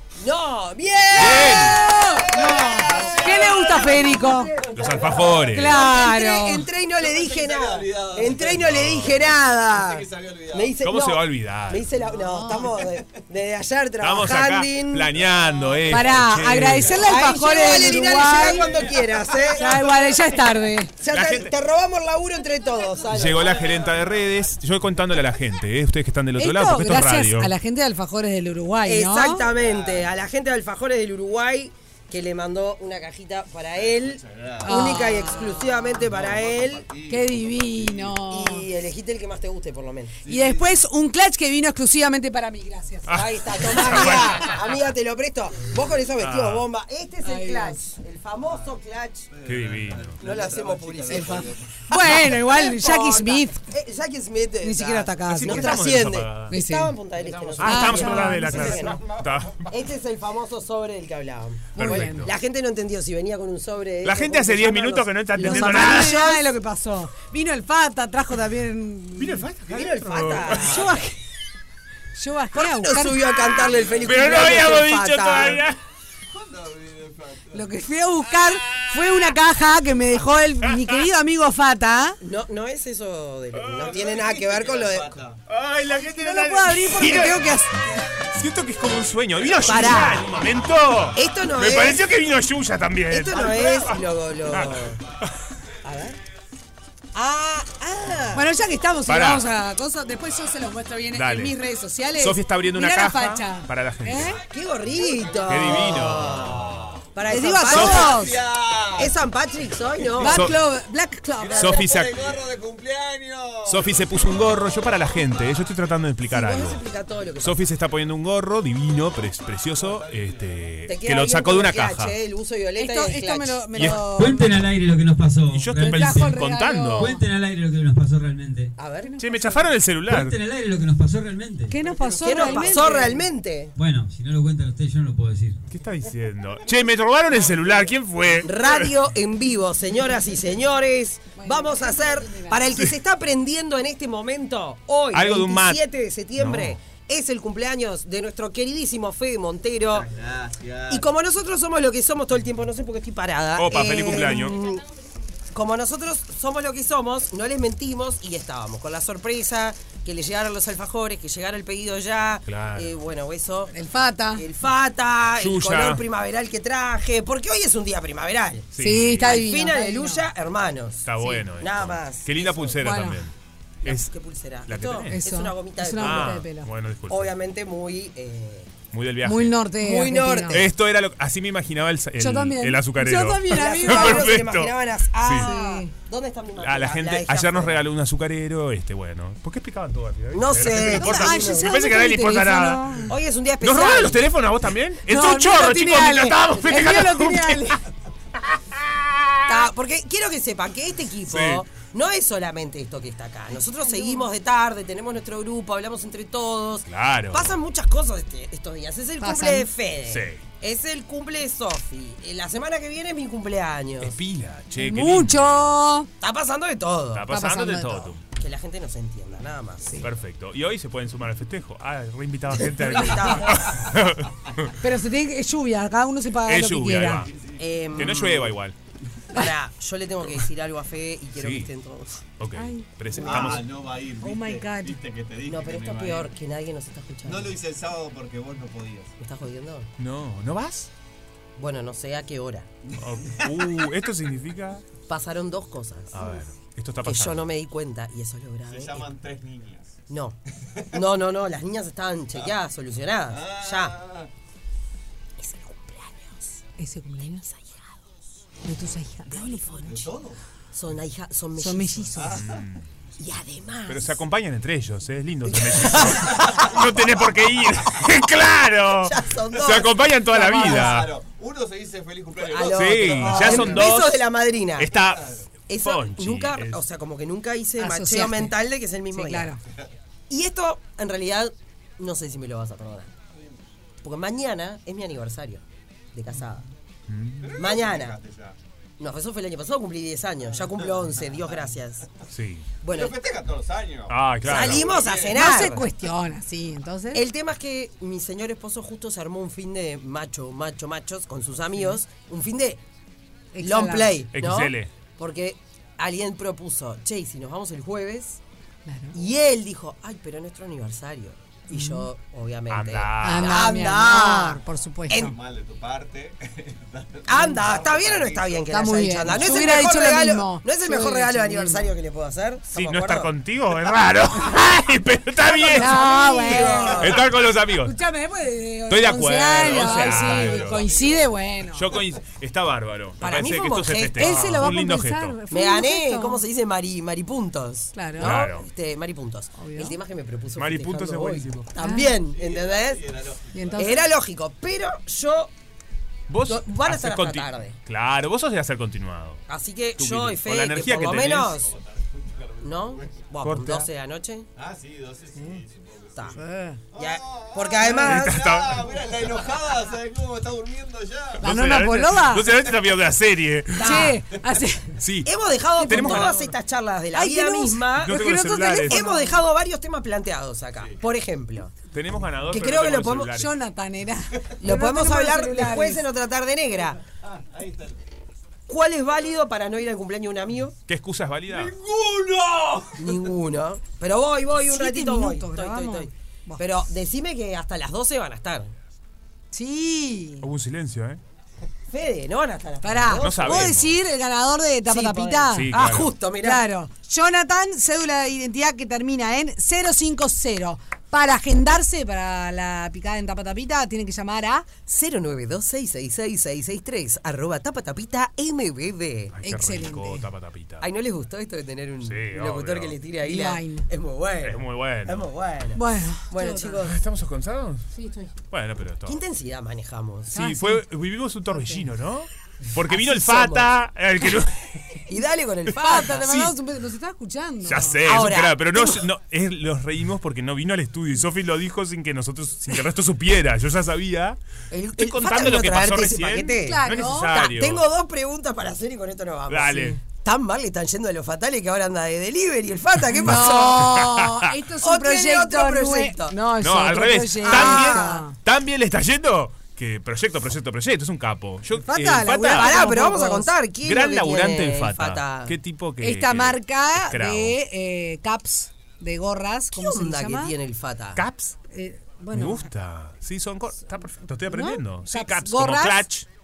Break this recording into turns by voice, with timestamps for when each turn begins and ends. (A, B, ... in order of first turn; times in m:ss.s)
0:00.2-0:04.8 A
0:01.1-0:01.9 B
0:01.6-0:04.5 C
0:02.3-0:04.2 D
0:04.7-0:06.1 D
0:04.7-0:05.9 B
0:05.5-0:06.7 C
0:05.8-0:15.1 A
0:06.9-0:10.8 D
0:08.5-0:09.3 B
0:10.8-0:11.9 B
0:12.1-0:12.6 C
0:12.6-0:13.2 D
0:14.0-0:17.2 B
0:15.2-0:15.8 D
0:15.9-0:18.7 C
0:17.1-0:19.9 A
0:18.2-0:20.2 D
0:19.5-0:20.9 C
0:21.0-0:23.4 A
0:21.1-0:21.6 B
0:22.6-0:24.9 D
0:23.1-0:27.5 B
0:26.4-0:29.5 C
0:28.9-0:36.8 A
0:29.4-0:30.2 D
0:33.7-0:38.2 D
0:34.6-0:35.9 C
0:37.1-0:38.7 C
0:38.3-0:40.1 A
0:40.2-0:40.7 D
0:40.2-0:43.2 C
0:43.1-0:44.6 B
0:43.1-0:49.3 A
0:43.7-0:44.2 C
0:46.2-0:46.7 B
0:47.2-0:47.8 C
0:49.3-0:51.8 D
0:49.4-0:50.2 B
0:50.2-0:51.4 A
0:51.1-0:53.6 C
0:52.0-0:59.0 A
0:54.6-0:55.8 C
0:55.3-0:56.6 B
0:56.5-0:57.0 C
0:57.6-0:59.8 B
0:57.6-0:59.0 C
0:59.7-1:06.4 A
1:01.8-1:02.3 C
1:01.8-1:02.3 B
1:04.0-1:06.4 B
1:05.4-1:09.4 C
1:09.2-1:10.9 B
1:09.7-1:11.0 A
1:10.5-1:11.1 C
1:12.2-1:13.4 C
1:12.6-1:15.6 A
1:13.6-1:15.8 B
1:16.3-1:17.7 D
1:17.5-1:22.2 C
1:22.2-1:25.2 A
1:23.6-1:25.4 D
1:25.5-1:27.4 B
1:25.9-1:27.7 C
1:28.3-1:34.8 B
1:29.7-1:30.2 A
1:31.2-1:32.0 A
1:33.1-1:35.0 A
1:33.3-1:33.6 D
1:35.8-1:36.2 A
1:37.1-1:38.4 A
1:38.4-1:44.4 C
1:39.1-1:39.5 B
1:41.1-1:41.6 B
1:42.2-1:44.4 B
1:44.5-1:46.6 A
1:44.9-1:46.9 D
1:45.5-1:47.0 B
1:47.2-1:48.1 A
1:47.3-1:48.4 C
1:47.7-1:48.2 B
1:47.8-1:49.2 D
1:49.0-1:50.4 A
1:50.2-1:51.8 C
1:50.2-1:50.6 B
1:51.4-1:54.2 D
1:51.5-1:52.4 B
1:53.7-1:56.8 B
1:56.3-1:57.6 A
1:57.4-2:02.2 B
1:59.8-2:00.6 D
2:00.9-2:03.7 A
2:02.8-2:04.5 C
2:03.7-2:04.0 B
2:04.0-2:06.4 E
2:05.5-2:07.1 B
2:05.8-2:07.2 C
2:07.0-2:08.8 E
2:08.8-2:09.2 A
2:09.1-2:09.6 C
2:09.2-2:10.4 B
2:10.1-2:11.8 E
2:11.7-2:13.2 C
2:11.8-2:13.0 D
2:12.2-2:13.7 A
2:13.8-2:15.6 E
2:15.7-2:19.0 B
2:17.4-2:17.7 D
2:18.4-2:30.1 A
2:21.4-2:22.7 C
2:25.1-2:25.8 B
2:26.4-2:26.8 B
2:29.9-2:31.1 D
2:30.9-2:34.8 A
2:33.6-2:34.6 B
2:35.5-2:43.7 A
2:42.5-2:43.0 B
2:43.7-2:44.5 C
2:44.4-2:48.7 A
2:45.4-2:46.0 B
2:48.7-2:49.5 B
2:48.8-2:50.3 C
2:49.2-2:52.8 A
2:51.0-2:54.1 B
2:52.8-2:53.2 C
2:53.8-2:56.4 A
2:54.7-2:55.2 B
2:55.1-2:56.7 C
2:55.9-2:57.3 B
2:57.1-2:58.8 A
2:58.9-2:59.7 B
2:59.2-3:00.6 C
2:59.8-3:00.7 A
3:00.5-3:05.5 B
3:02.2-3:04.4 C
3:03.5-3:07.8 A
3:05.4-3:05.9 C
3:06.6-3:17.8 B
3:10.3-3:11.7 A
3:10.7-3:13.1 C
3:13.1-3:14.2 A
3:15.1-3:17.8 C
3:16.5-3:16.9 A
3:18.6-3:19.6 B
3:19.5-3:34.1 A
3:21.3-3:21.6 B
3:23.8-3:24.3 C
3:26.9-3:27.6 B
3:29.2-3:29.7 C
3:30.1-3:30.4 B
3:34.0-3:35.8 B
3:34.8-3:36.1 C
3:36.2-3:37.3 A
3:37.1-3:38.2 B
3:37.3-3:38.1 C
3:38.3-3:40.0 A
3:40.0-3:44.7 B
3:42.6-3:43.6 A
3:44.8-3:47.3 C
3:46.5-3:47.3 B
3:47.3-3:47.9 D
3:47.6-3:48.5 A
3:47.9-3:48.8 B
3:49.3-3:52.2 A
3:51.4-3:51.7 B
3:52.4-3:53.7 B
3:52.6-3:53.6 C
3:53.2-3:56.3 D
3:54.2-3:55.0 C
3:55.5-3:57.5 A
3:57.2-3:59.2 D
3:59.2-3:59.9 A
4:00.0-4:00.9 B
4:01.6-4:02.7 A
4:02.9-4:03.5 D
4:03.0-4:04.8 B
4:05.1-4:06.4 A
4:06.1-4:07.5 B
4:07.0-4:09.0 A
4:08.7-4:10.0 D
4:10.1-4:10.4 A
4:10.9-4:14.0 A
4:13.3-4:14.3 D
4:15.4-4:16.6 A
4:16.8-4:17.8 C
4:18.6-4:20.1 C
4:19.7-4:20.4 D
4:20.7-4:22.2 A
4:21.6-4:22.4 C
4:22.2-4:22.5 D
4:22.3-4:22.9 B
4:23.2-4:24.2 A
4:23.9-4:31.1 B
4:25.5-4:26.3 A
4:29.0-4:30.9 A
4:30.4-4:34.0 D
4:32.4-4:34.9 A
4:32.6-4:34.2 B
4:34.8-4:35.3 B
4:35.0-4:35.4 D
4:35.7-4:39.5 A
4:35.8-4:36.8 B
4:37.8-4:38.5 C
4:39.1-4:39.6 C
4:40.3-4:43.1 A
4:44.0-4:45.6 A
4:46.1-4:46.7 A
4:47.1-4:47.6 B
4:47.4-4:48.6 D
4:47.6-4:48.2 A
4:49.0-4:52.1 A
4:50.7-4:51.3 D
4:52.3-4:52.7 B
4:52.8-4:53.2 A
4:52.9-4:55.7 D
4:54.1-4:54.9 B
4:54.4-4:55.8 A
4:55.3-4:57.2 C
4:57.1-5:02.8 A
5:03.5-5:04.2 C
5:03.6-5:08.4 A
5:04.3-5:04.9 B
5:08.9-5:09.2 C
5:09.1-5:14.6 A
5:11.7-5:12.1 C
5:12.7-5:13.6 B
5:13.2-5:15.3 C
5:15.1-5:18.7 D
5:17.3-5:23.3 A
5:18.7-5:21.9 C
5:19.5-5:19.7 D
5:22.7-5:28.0 B
5:25.5-5:27.3 A
5:25.7-5:27.2 C
5:27.8-5:31.9 C
5:28.9-5:30.9 B
5:29.9-5:31.4 D
5:31.7-5:35.4 B
5:33.2-5:34.4 A
5:34.2-5:36.4 C
5:35.5-5:43.0 A
5:37.9-5:38.3 C
5:38.2-5:38.7 B
5:39.6-5:40.0 C
5:40.6-5:41.7 B
5:41.8-5:42.2 C
5:42.2-5:44.1 D
5:43.5-5:44.1 C
5:43.8-5:45.5 A
5:46.3-5:49.4 B
5:46.4-5:47.8 A
5:49.5-5:51.7 A
5:50.0-5:51.6 B
5:51.6-5:53.4 D
5:52.6-5:54.5 A
5:53.4-5:53.9 B
5:54.6-5:56.4 D
5:56.3-5:56.8 C
5:56.9-6:01.4 D
5:57.0-5:58.4 A
5:57.8-5:58.3 C
5:58.0-5:58.9 B
6:01.4-6:04.2 B
6:01.4-6:02.5 C
6:03.8-6:04.2 A
6:03.8-6:05.0 C
6:05.0-6:06.5 B
6:05.2-6:11.7 A
6:05.8-6:06.5 C
6:07.1-6:09.4 C
6:08.0-6:09.2 B
6:11.9-6:13.5 B
6:12.5-6:13.3 A
6:13.3-6:16.0 C
6:14.6-6:17.0 A
6:17.3-6:18.0 D
6:18.7-6:20.8 A
6:20.9-6:21.8 B
6:21.5-6:23.3 D
6:23.0-6:28.7 A
6:24.6-6:26.6 C
6:29.5-6:30.5 C
6:30.4-6:31.2 B
6:31.9-6:33.7 A
6:32.8-6:35.8 C
6:33.2-6:34.0 B
6:34.9-6:36.6 A
6:35.5-6:36.2 B
6:36.4-6:44.7 C
6:44.8-6:49.3 A
6:49.3-6:50.9 B
6:49.4-6:50.2 C
6:50.8-6:57.0 A
6:52.0-6:53.0 B
6:53.2-6:53.9 C
6:54.4-6:55.3 B
6:55.8-6:56.8 C
6:56.8-6:57.9 B
6:58.0-6:58.3 C
6:58.5-6:59.2 B
6:59.1-7:00.3 A
7:00.3-7:05.0 B
7:00.3-7:00.8 C
7:01.5-7:01.9 C
7:02.9-7:03.7 A
7:05.1-7:06.2 A
7:05.8-7:08.0 C
7:05.9-7:06.6 B
7:07.6-7:14.4 B
7:08.0-7:09.0 A
7:14.7-7:16.8 A
7:14.9-7:17.9 B
7:16.6-7:17.4 C
7:17.3-7:24.0 A
7:19.5-7:20.0 B
7:19.7-7:20.0 C
7:23.2-7:24.4 B
7:23.2-7:28.4 C
7:24.8-7:26.4 A
7:26.6-7:33.0 B
7:27.4-7:28.2 A
7:31.9-7:33.5 C
7:32.5-7:35.6 A
7:33.8-7:37.6 B
7:36.0-7:40.6 C
7:39.8-7:41.2 A
7:41.2-7:41.6 B
7:41.7-7:42.6 C
7:42.3-7:46.3 B
7:44.5-7:46.0 C